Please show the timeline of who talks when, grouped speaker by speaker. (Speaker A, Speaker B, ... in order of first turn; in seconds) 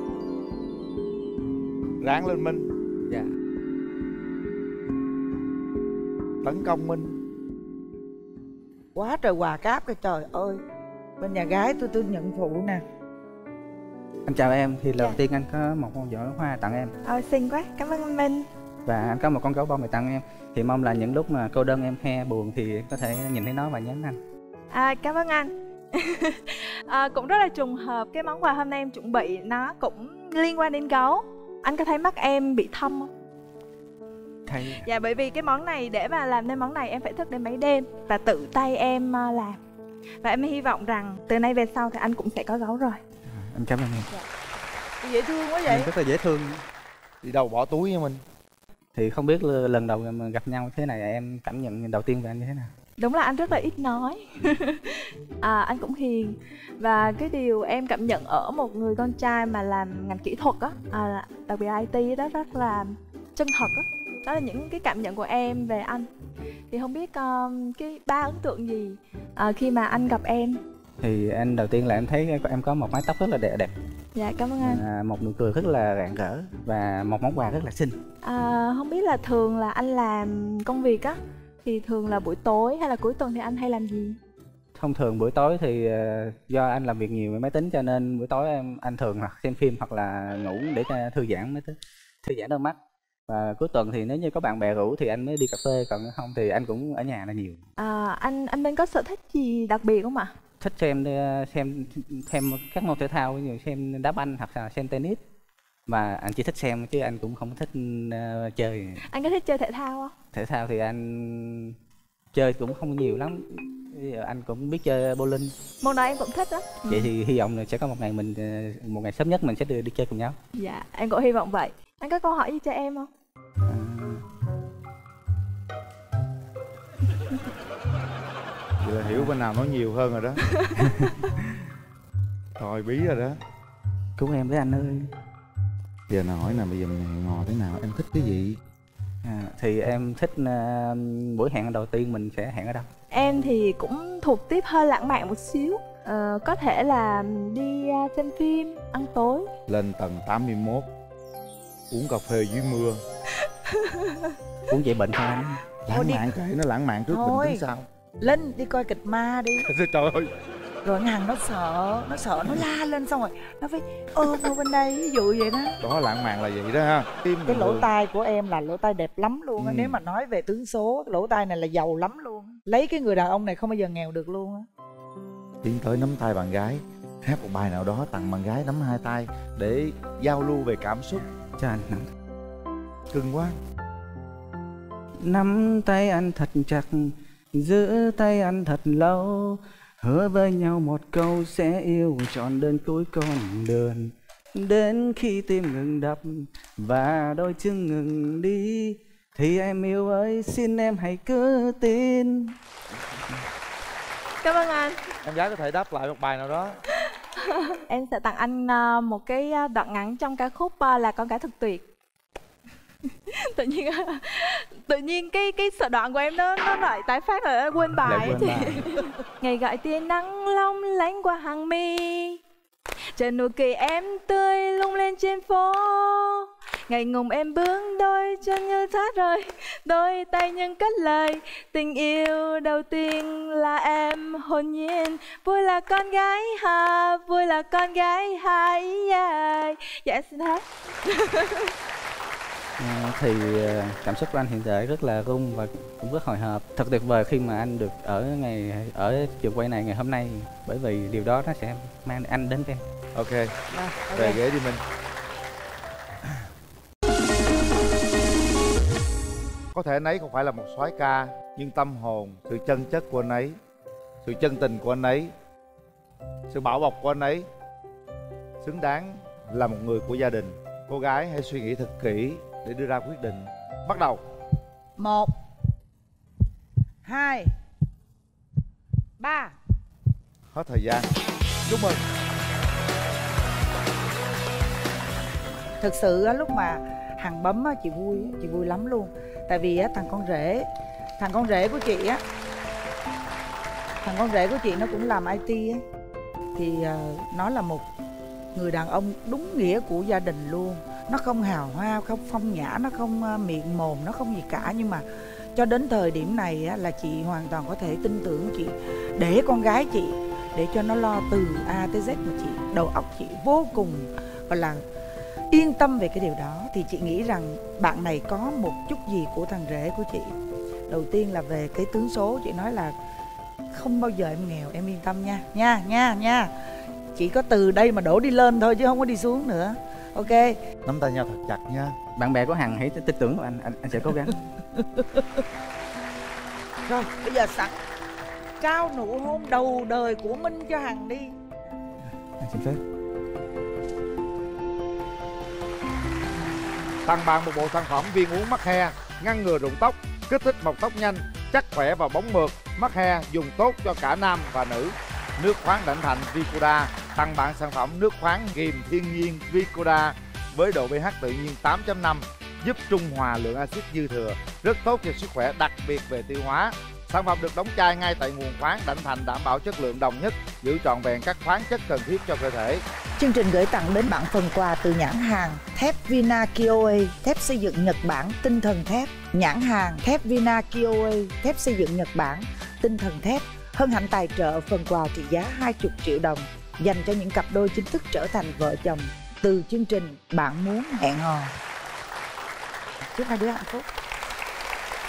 Speaker A: 2.0-3.2, 6.4-7.2, 47.2-48.2, 128.8-130.4, 132.6-133.4, 136.1-138.6, 149.7-150.9, 151.9-153.0, 155.9-157.9, 159.7-160.3, 165.8-167.9, 169.6-170.0, 175.6-181.2, 183.1-183.6, 205.2-206.8, 253.2-253.6, 254.1-254.8, 259.7-263.6, 264.2-265.3, 266.5-267.5, 268.6-274.2, 280.5-281.1, 281.7-282.0, 330.9-331.9, 347.1-372.8
Speaker B: 8.9-10.6, 11.2-12.8, 45.0-45.9, 155.9-156.3, 157.1-157.6, 158.2-159.7, 160.8-165.8, 167.4-174.7, 253.7-254.4, 275.0-275.3, 277.1-277.5, 279.2-279.6, 285.8-290.7, 291.2-292.2, 294.0-295.8, 296.6-297.9, 298.6-314.8, 315.5-320.3, 320.9-322.9, 323.7-326.5, 327.1-330.6, 334.8-335.4, 336.9-337.8, 338.6-341.4, 373.2-391.5, 393.1-393.9
Speaker C: 14.3-16.9, 18.9-24.2, 34.5-34.9, 43.3-44.1, 45.7-46.6, 49.0-52.7, 71.0-73.7, 74.6-78.0, 84.8-92.8, 93.3-97.6, 100.6-105.2, 105.9-109.0, 110.3-111.8, 112.3-115.5, 116.9-120.4, 123.7-124.2, 130.8-131.4, 134.2-135.1, 139.2-142.9, 154.7-155.6, 181.6-182.0, 185.2-202.5, 218.0-218.9, 242.8-252.8, 332.2-334.4, 342.4-342.8
Speaker D: 17.0-18.5, 24.7-33.1, 34.7-39.6, 40.2-43.0, 53.0-66.1, 66.7-70.6, 74.2-74.8, 78.2-84.2, 97.8-100.3, 109.1-110.1, 115.8-117.1, 120.6-123.1, 130.4-130.8, 143.1-149.5, 153.7-154.4, 204.4-205.0, 207.3-211.8, 213.3-222.4, 223.2-241.7